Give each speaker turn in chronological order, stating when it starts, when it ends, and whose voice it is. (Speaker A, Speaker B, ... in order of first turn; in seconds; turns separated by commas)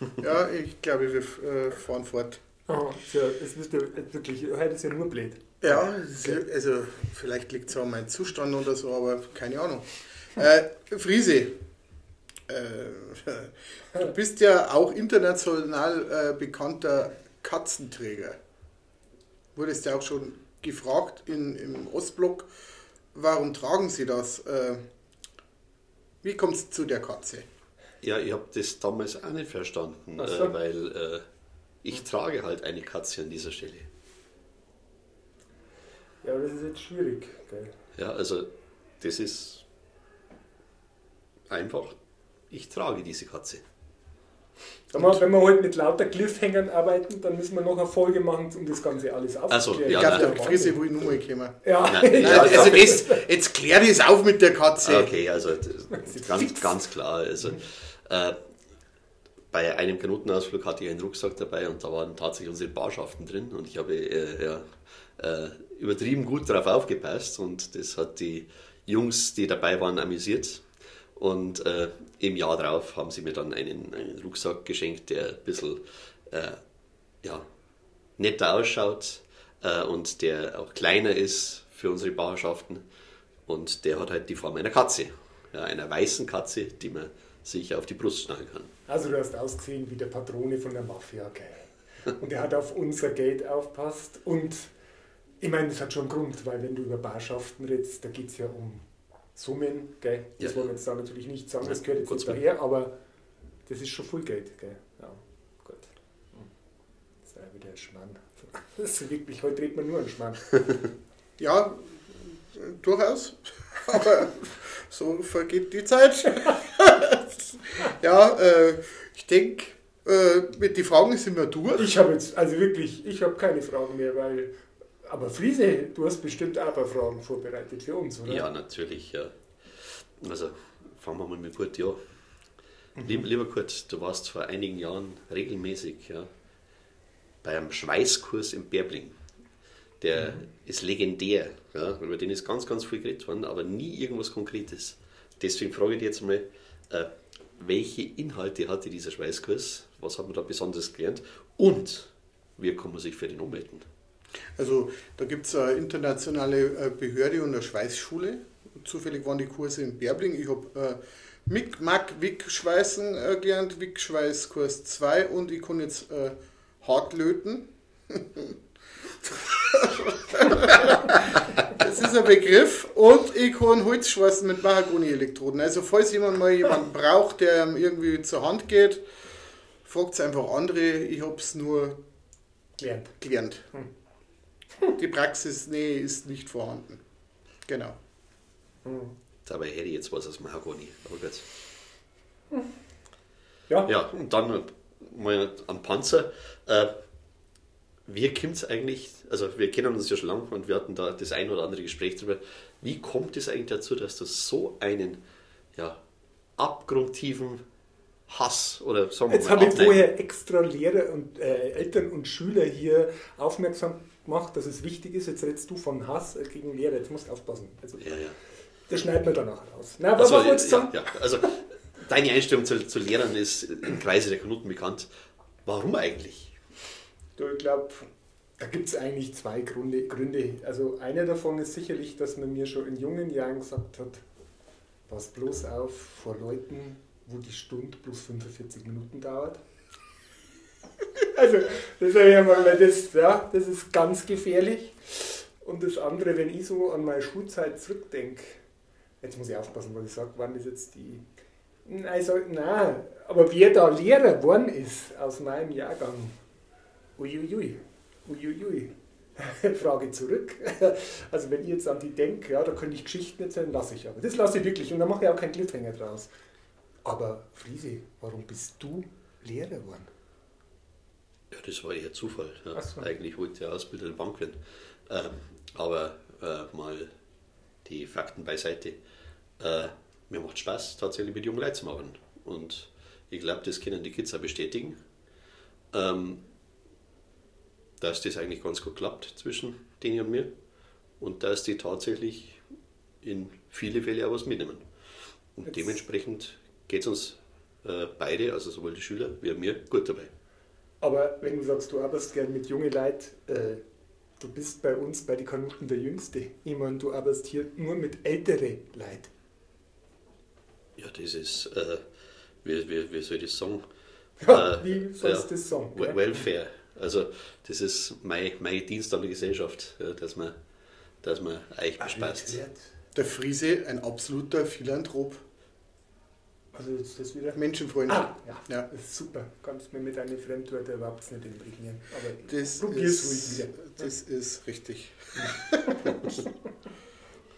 Speaker A: 0.2-2.4, Speaker B: 2.7-5.9, Speaker A: 5.6-11.6, Speaker A: 12.5-18.4, Speaker A: 19.5-22.5, Speaker A: 23.1-24.8, Speaker A: 26.2-27.4, Speaker C: 28.0-31.2, Speaker B: 30.2-30.5, Speaker C: 31.8-33.9, Speaker B: 36.2-37.7, Speaker C: 38.0-38.5, Speaker C: 39.0-39.6, Speaker C: 41.5-42.0, Speaker C: 42.5-43.6, Speaker B: 44.9-50.8, Speaker C: 49.5-50.3, Speaker A: 49.9-55.2, Speaker B: 51.6-53.2, Speaker C: 51.8-53.0, Speaker C: 54.8-58.4, Speaker B: 55.9-56.7, Speaker C: 59.5-70.6, Speaker C: 71.2-76.6, Speaker C: 78.2-82.8, Speaker C: 83.5-88.7, Speaker B: 88.9-94.7, Speaker B: 95.4-98.8, Speaker B: 99.3-102.9, Speaker C: 101.6-102.4, Speaker B: 103.7-106.5, Speaker B: 107.2-110.5, Speaker A: 111.4-121.9, Speaker B: 121.8-128.4, Speaker C: 128.3-132.0, Speaker B: 133.0-133.2, Speaker C: 133.0-136.3, Speaker C: 137.4-139.1, Speaker C: 140.0-153.8, Speaker B: 140.2-140.4, Speaker A: 154.6-168.6, Speaker A: 169.2-179.0, Speaker A: 179.8-182.0, Speaker B: 182.8-183.1, Speaker A: 183.2-183.7, Speaker A: 184.9-187.0, Speaker A: 187.7-188.0, Speaker B: 188.8-189.1, Speaker C: 189.4-191.4, Speaker C: 193.8-196.9, Speaker C: 198.1-205.2, Speaker C: 206.6-207.6, Speaker C: 208.3-210.1, Speaker B: 209.3-218.1, Speaker C: 218.0-218.3, Speaker B: 218.9-221.1, Speaker C: 220.2-225.1, Speaker C: 225.7-226.5, Speaker B: 227.4-228.1, Speaker B: 228.6-234.2, Speaker B: 235.1-239.6, Speaker B: 241.2-248.6, Speaker B: 249.2-251.2, Speaker B: 251.8-256.3, Speaker B: 257.2-266.3, Speaker B: 267.1-270.1, Speaker C: 271.5-277.1, Speaker B: 272.8-273.1, Speaker C: 277.8-279.0, Speaker C: 279.6-285.0, Speaker C: 285.9-286.4, Speaker C: 288.0-290.5, Speaker C: 291.2-292.6, Speaker C: 293.2-294.8, Speaker C: 295.6-300.3, Speaker B: 301.0-303.8, Speaker B: 304.4-309.3, Speaker C: 311.0-312.0, Speaker C: 312.6-313.8, Speaker B: 314.4-316.2, Speaker C: 314.5-320.6, Speaker C: 321.2-322.6, Speaker B: 322.0-322.8, Speaker A: 323.1-325.4, Speaker B: 326.7-334.1, Speaker A: 327.6-328.9, Speaker A: 332.5-336.2, Speaker B: 335.9-336.4